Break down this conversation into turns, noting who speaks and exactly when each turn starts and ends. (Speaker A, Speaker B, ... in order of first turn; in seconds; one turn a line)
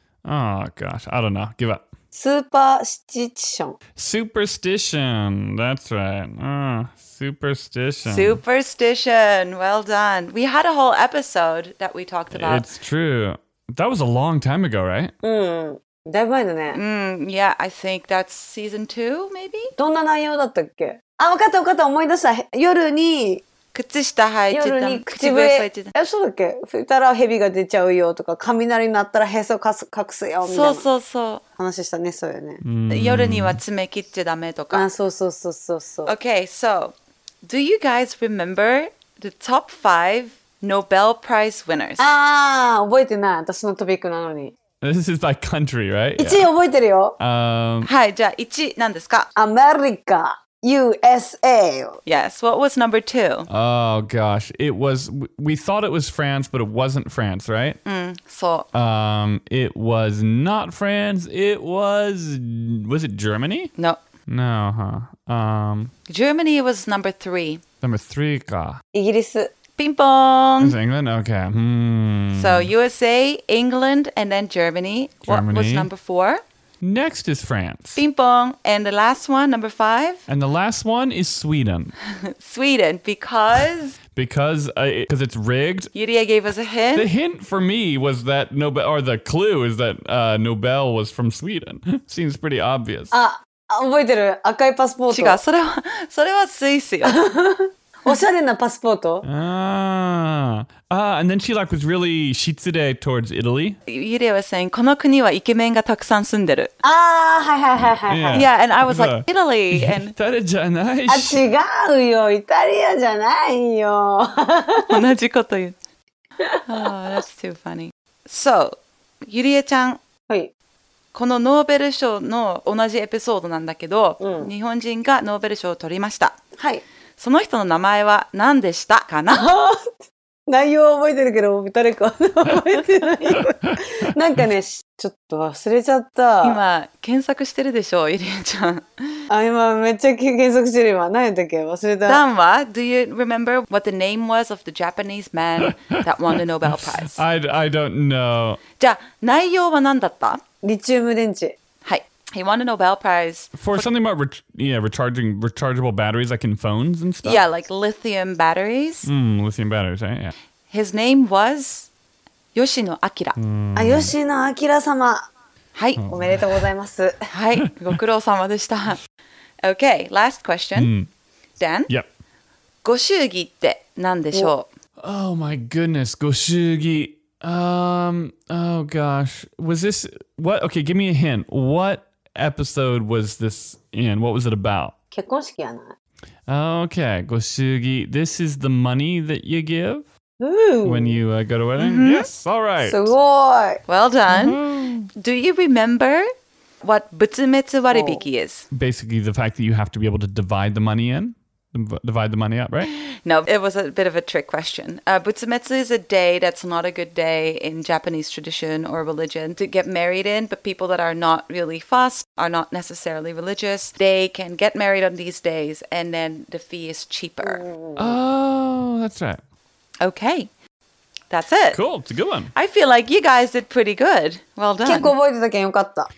Speaker A: 0.2-1.9
Speaker B: 2.1-3.8
Speaker A: 4.0-8.4
Speaker C: 8.1-12.7
Speaker A: 12.3-15.1
Speaker B: 15.2-16.8
Speaker C: 16.7-19.7
Speaker B: 19.8-23.4
Speaker C: 23.7-25.9
Speaker B: 24.5-30.9
Speaker C: 30.4-31.4
Speaker B: 31.6-32.6
Speaker A: 32.6-33.6
Speaker C: 32.9-34.9
Speaker B: 34.7-36.2
Speaker C: 36.1-42.1
Speaker B: 42.0-44.5
Speaker A: 44.8-46.5
Speaker B: 46.2-47.2
Speaker A: 47.2-47.9
Speaker C: 47.8-49.3
Speaker B: 49.4-52.0
Speaker C: 52.0-53.5
Speaker A: 53.5-57.8
Speaker C: 57.9-58.7
Speaker A: 58.7-63.7
Speaker A: 64.3-65.9
Speaker C: 66.1-67.6
Speaker A: 67.8-68.8
Speaker B: 68.9-69.5
Speaker C: 69.8-70.8
Speaker A: 70.6-72.7
Speaker C: 72.3-76.4
Speaker A: 75.3-75.9
Speaker A: 76.8-78.0
Speaker C: 78.0-80.2
Speaker A: 80.3-81.9
Speaker C: 82.1-84.0
Speaker A: 84.2-85.9
Speaker C: 85.9-87.1
Speaker A: 86.9-93.1
Speaker B: 93.1-95.4
Speaker C: 95.1-97.2
Speaker B: 97.0-99.2
Speaker A: 99.2-103.8
Speaker C: 103.9-106.7
Speaker B: 106.8-108.5
Speaker A: 107.9-111.5
Speaker C: 108.3-110.1
Speaker B: 111.1-115.0
Speaker C: 114.9-115.8
Speaker C: 116.7-120.0
Speaker C: 121.1-126.4
Speaker B: 124.2-124.5
Speaker B: 126.6-126.8
Speaker C: 127.2-129.5
Speaker B: 129.3-136.6
Speaker A: 133.4-133.8
Speaker C: 136.4-139.2
Speaker B: 139.3-142.2
Speaker C: 142.1-147.2
Speaker A: 146.7-148.6
Speaker C: 148.8-150.4
Speaker B: 150.6-151.6
Speaker C: 151.8-153.9
Speaker A: 153.6-157.5
Speaker C: 157.2-159.1
Speaker A: 159.1-160.3
Speaker C: 160.7-161.9
Speaker C: 162.5-163.4
Speaker A: 163.4-164.1
Speaker B: 163.8-165.2
Speaker C: 165.7-166.1
Speaker A: 166.0-166.7
Speaker B: 166.1-167.2
Speaker C: 167.3-169.0
Speaker C: 169.6-170.9
Speaker A: 170.8-171.1
Speaker C: 171.6-171.9
Speaker C: 172.8-174.7
Speaker A: 175.0-184.9
Speaker B: 185.1-185.9
Speaker A: 186.5-190.1
Speaker B: 190.4-191.2
Speaker A: 190.8-193.2
Speaker C: 191.8-192.3
Speaker B: 192.8-193.8
Speaker C: 193.9-194.6
Speaker A: 194.3-195.1
Speaker C: 195.2-196.3
Speaker C: 196.8-198.7
Speaker B: 197.9-198.3
Speaker A: 198.7-202.9
Speaker C: 202.9-217.6
Speaker B: 217.4-218.2
Speaker A: 218.0-219.4
Speaker C: 220.0-220.5
Speaker C: 221.3-221.8
Speaker A: 221.7-222.5
Speaker C: 222.5-225.1
Speaker B: 224.8-226.1